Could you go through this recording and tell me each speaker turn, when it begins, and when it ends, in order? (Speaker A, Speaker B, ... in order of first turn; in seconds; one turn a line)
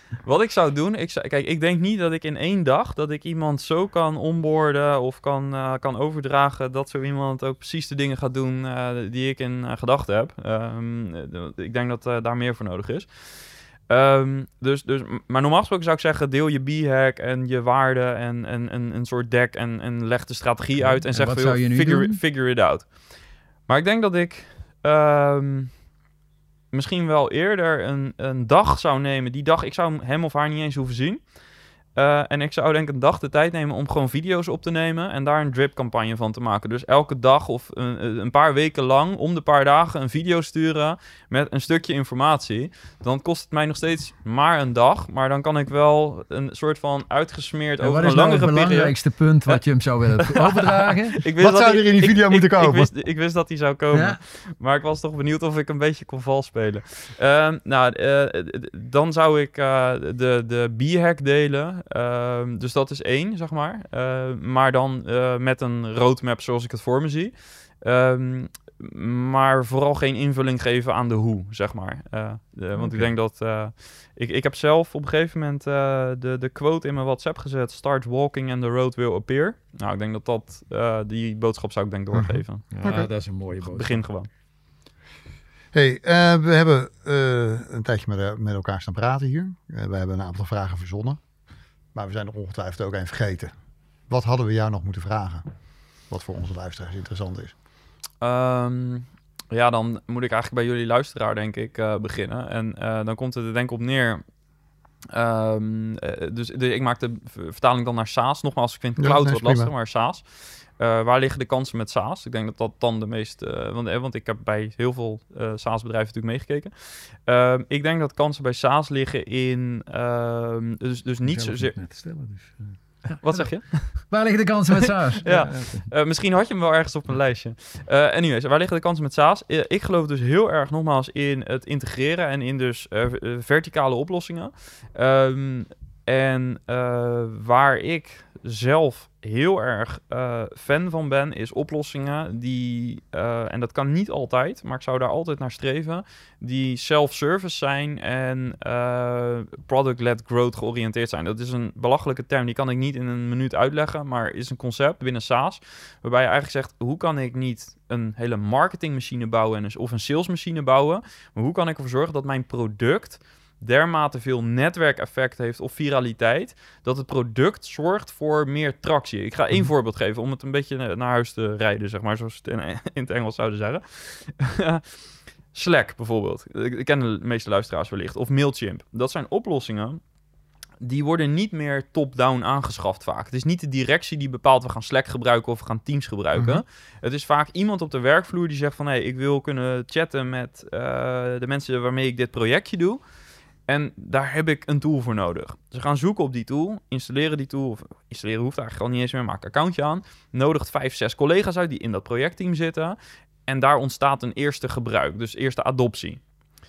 Speaker A: 0.2-22.9
Speaker B: 20.8-22.2
Speaker A: 23.7-25.7
Speaker A: 26.7-31.2
Speaker A: 31.9-49.6
Speaker B: 47.8-51.2
Speaker A: 50.2-84.3
Speaker C: 51.4-52.9
Speaker B: 53.9-54.2
Speaker B: 72.8-73.1
Speaker C: 82.1-83.1
Speaker B: 82.7-84.0
Speaker C: 85.7-91.2
Speaker C: 91.9-93.5
Speaker C: 94.1-95.4
Speaker C: 96.1-97.5
Speaker A: 98.2-104.2
Speaker A: 105.1-121.8
Speaker C: 109.0-109.7
Speaker B: 121.2-125.9
Speaker A: 123.1-124.3
Speaker A: 125.2-174.8
Speaker A: 175.5-180.0
Speaker A: 180.8-193.0
Speaker C: 186.3-186.6
Speaker A: 193.7-206.2